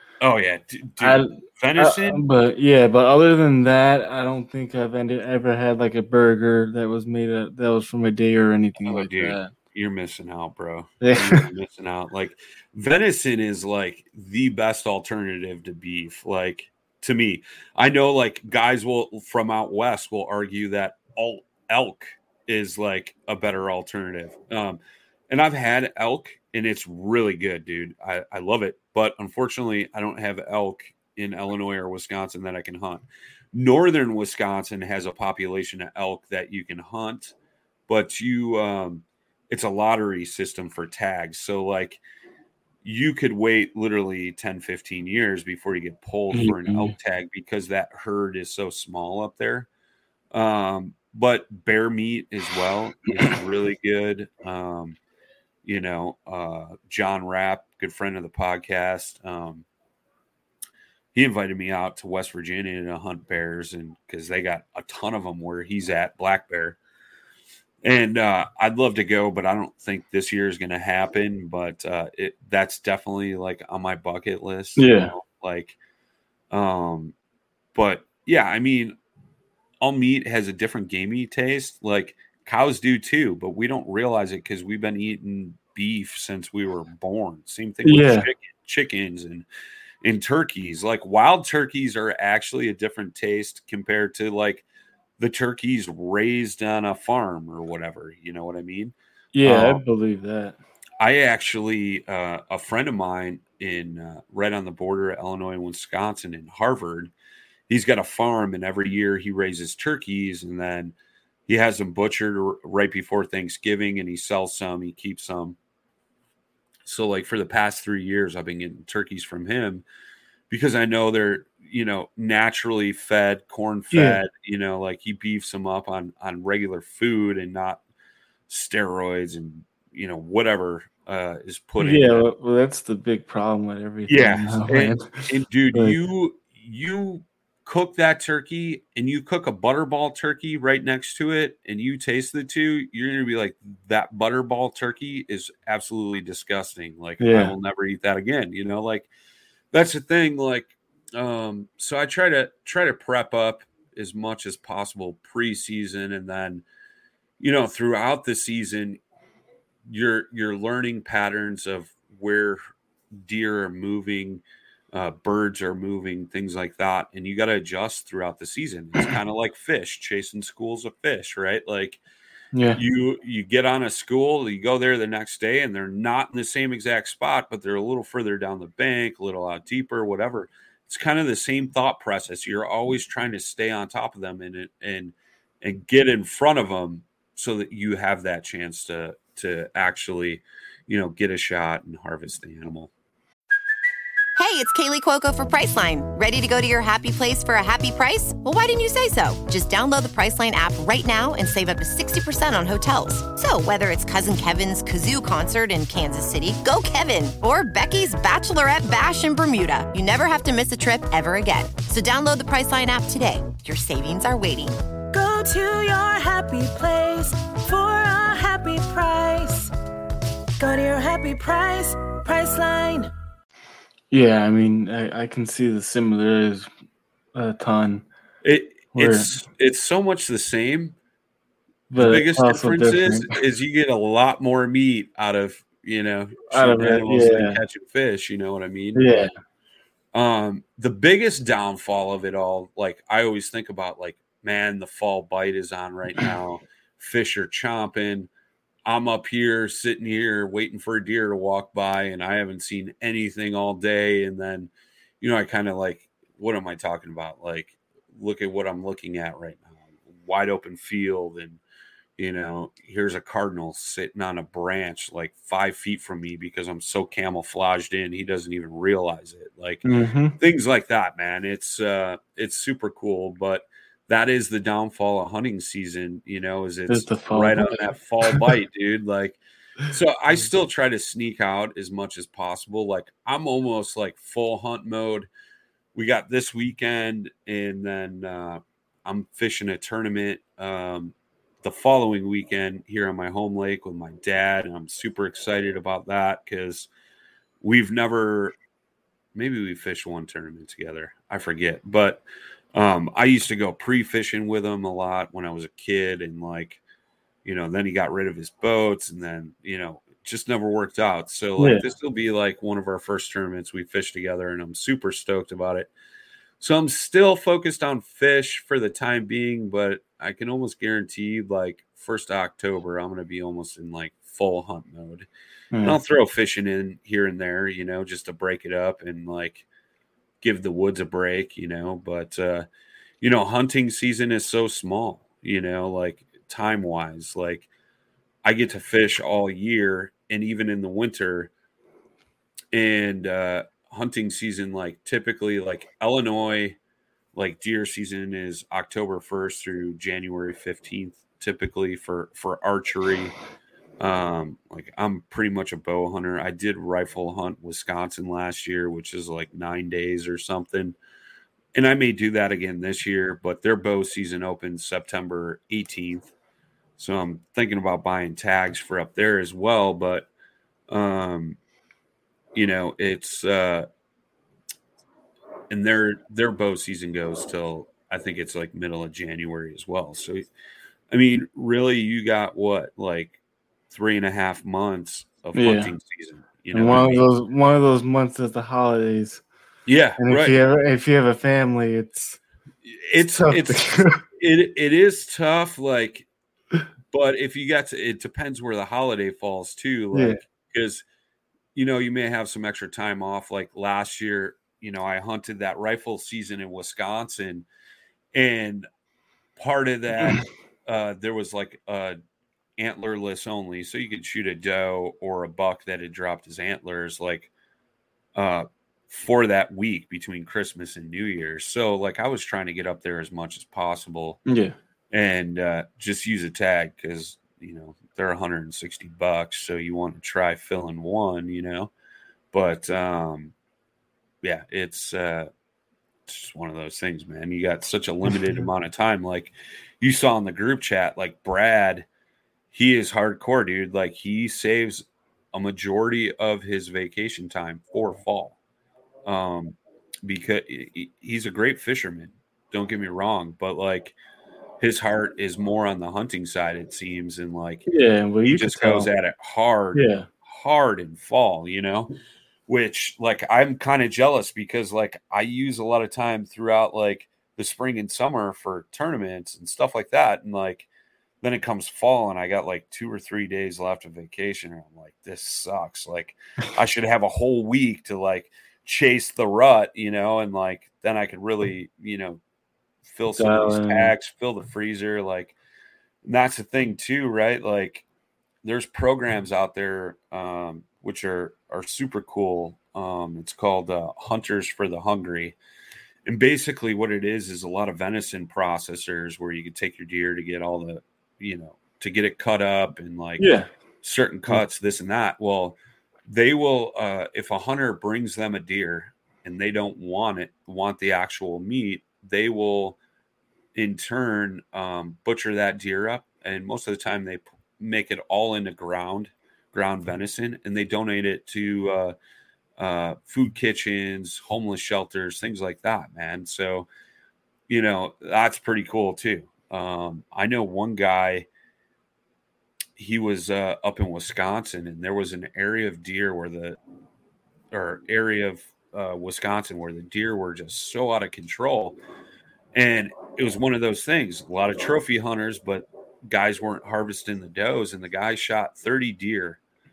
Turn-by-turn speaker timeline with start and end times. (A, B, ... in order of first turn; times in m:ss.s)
0:00.2-0:02.2 A
0:01.0-0:09.5 B
0:08.8-0:37.4 A
0:11.0-0:11.5 B
0:37.9-0:42.0 A
0:42.8-0:49.7 A
0:46.3-0:46.9 B
0:50.3-0:55.0 A
0:55.6-0:59.7 A
1:01.1-1:06.8 A
1:07.8-1:15.8 A
1:14.8-1:15.1 B
1:16.5-1:17.1 A
1:17.8-1:19.0 A
1:19.8-1:29.5 A
1:27.8-1:28.3 B
1:30.0-1:34.6 A
1:35.2-1:39.8 A
1:39.4-1:40.6 B
1:41.0-1:47.1 A
1:47.7-1:51.0 A
1:51.5-1:55.6 A
1:56.8-1:59.8 A
2:00.5-2:07.8 A
2:03.9-2:04.2 B
2:08.5-2:12.3 A
2:11.8-2:16.0 B
2:14.1-2:29.1 A
2:27.2-2:27.5 B
2:29.7-2:36.6 A
2:37.4-2:39.0 A
2:39.9-2:42.6 A
2:43.1-2:52.0 A
2:52.5-2:52.8 B
2:52.8-3:12.9 A
3:14.4-3:34.8 C
3:35.1-3:39.7 D
3:40.6-3:43.1 D
3:44.1-3:46.7 B
3:47.3-3:48.0 B
3:48.4-3:51.0 A
3:49.0-3:49.3 B
3:51.9-3:53.4 B
3:52.0-3:59.2 A
3:56.5-3:57.6 B
3:59.0-3:59.3 B
4:00.1-4:08.3 A
4:08.8-4:21.6 A
4:22.2-4:29.8 A
4:29.8-4:30.4 B
4:30.4-4:45.3 A
4:36.9-4:38.5 B
4:46.0-4:56.9 A
4:57.6-4:58.6 A
4:59.4-5:02.2 A
5:02.7-5:06.8 A
5:07.4-5:15.9 A
5:11.6-5:11.9 B
5:16.6-5:25.3 A
5:25.7-5:26.0 B
5:25.8-5:29.7 A
5:30.4-5:32.7 A
5:33.2-5:37.7 A
5:38.4-5:41.5 A
5:42.7-5:46.8 A
5:47.4-5:53.4 A
5:54.0-6:01.0 A
6:01.7-6:06.3 A
6:07.0-6:10.3 A
6:10.9-6:11.6 A
6:12.5-6:13.9 A
6:15.7-6:20.5 A
6:21.1-6:23.4 A
6:23.9-6:27.3 A
6:25.5-6:25.9 B
6:26.7-6:29.4 B
6:29.9-6:30.6 A
6:30.2-6:32.4 B
6:32.9-6:36.3 A
6:33.3-6:34.2 B
6:37.1-6:41.0 A
6:40.1-6:40.4 B
6:41.8-6:47.7 A
6:48.3-6:48.9 A
6:49.6-6:52.2 A
6:52.8-6:57.5 A
6:58.4-7:04.4 A
7:04.5-7:04.8 B
7:05.1-7:11.9 A
7:12.5-7:13.5 A
7:14.4-7:15.5 A
7:16.3-7:22.1 A
7:18.3-7:18.6 B
7:22.7-7:28.6 A
7:29.2-7:34.2 A
7:34.8-7:37.8 A
7:37.9-7:39.1 B
7:38.4-7:42.1 A
7:39.9-7:40.3 B
7:42.7-7:50.9 A
7:51.4-8:02.4 A
8:03.1-8:05.6 A
8:03.4-8:04.1 B
8:06.2-8:08.0 A
8:08.6-8:15.6 A
8:16.3-8:23.5 A
8:23.4-8:23.7 B
8:24.0-8:33.0 A
8:33.8-8:42.2 A
8:42.8-8:46.9 A
8:47.7-8:51.5 A
8:53.0-8:56.8 A
8:57.7-9:02.0 A
9:02.7-9:09.6 A